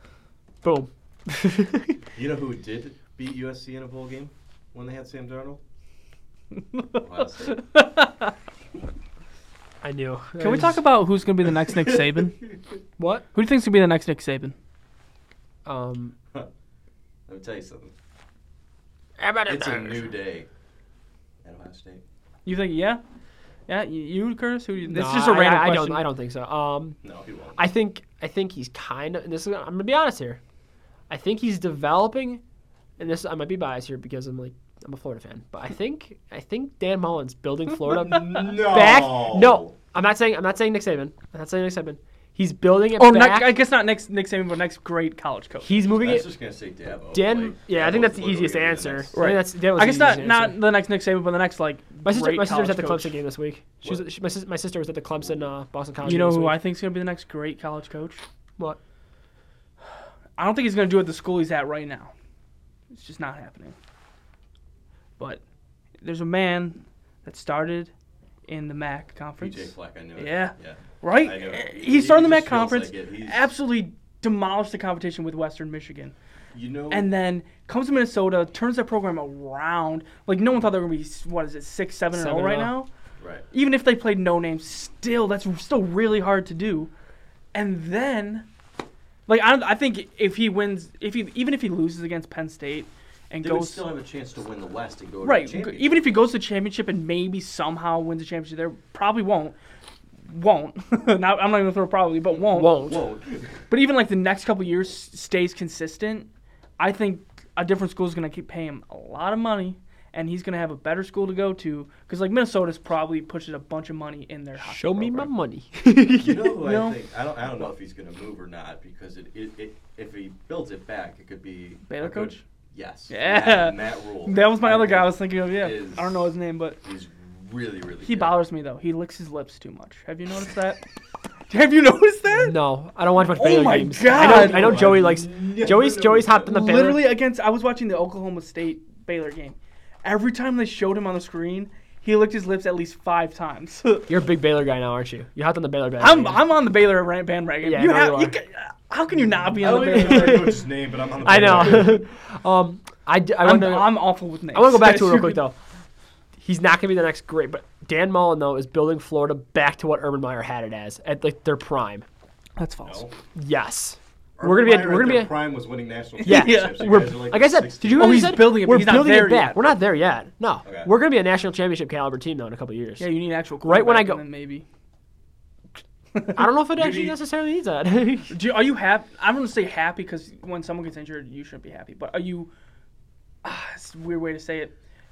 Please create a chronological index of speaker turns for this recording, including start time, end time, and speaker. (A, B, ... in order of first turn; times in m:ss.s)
0:00.6-0:02.0 A
0:02.1-0:05.6 B
0:06.8-0:08.3 C
0:07.0-0:07.6 B
0:09.8-0:10.8 A
0:10.4-0:12.4 C
0:11.7-0:12.2 B
0:13.0-0:13.2 A
0:13.3-0:14.5 C
0:15.6-0:16.1 A
0:17.3-0:17.9 B
0:19.2-0:20.1 A
0:19.5-0:20.5 B
0:21.4-0:22.0 B
0:22.4-0:23.0 C
0:23.7-0:26.0 C
0:24.9-0:27.0 A
0:27.0-0:27.6 B
0:27.6-0:30.4 A
0:31.1-0:32.4 A
0:33.0-0:43.5 A
0:37.8-0:39.7 B
0:43.0-0:45.8 C
0:45.6-0:46.3 A
0:46.0-0:49.2 B
0:47.1-0:50.6 A
0:49.1-0:53.1 C
0:52.0-0:56.6 A
0:56.0-0:58.2 C
1:00.4-1:02.1 C
1:02.9-1:03.7 C
1:06.0-1:07.9 C
1:08.5-1:16.1 C
1:09.4-1:13.5 B
1:16.5-1:17.1 B
1:16.9-1:22.9 C
1:22.1-1:22.8 A
1:23.2-1:23.4 B
1:23.5-1:26.9 C
1:27.5-1:28.4 C
1:29.3-1:33.8 C
1:33.4-1:36.2 B
1:35.2-1:39.6 C
1:40.3-1:42.8 C
1:42.3-1:43.6 B
1:42.5-1:43.0 A
1:43.7-1:46.3 C
1:46.8-1:55.3 C
1:54.6-1:56.6 A
1:56.2-2:06.3 B
1:56.6-1:57.0 C
2:01.9-2:02.4 C
2:03.1-2:06.8 C
2:06.8-2:08.4 B
2:08.0-2:10.8 C
2:11.5-2:12.6 C
2:12.3-2:17.1 A
2:13.3-2:15.0 C
2:14.0-2:16.5 B
2:16.4-2:24.1 C
2:24.1-2:26.4 A
2:26.0-2:30.6 C
2:27.6-2:28.4 A
2:29.6-2:32.0 B
2:29.7-2:30.6 A
2:31.2-2:35.6 A
2:33.4-2:35.4 C
2:36.4-2:42.0 A
2:42.6-2:43.1 C
2:42.8-2:43.1 B
2:43.3-2:45.4 A
2:44.4-2:48.4 B
2:46.2-2:47.0 C
2:46.2-2:53.1 A
2:47.9-2:49.7 C
2:50.6-2:50.9 B
2:53.0-2:54.6 C
2:53.6-2:54.2 A
2:56.1-2:56.4 C
2:56.3-2:58.3 A
2:56.7-2:57.2 B
2:58.3-3:02.5 C
3:03.4-3:04.7 C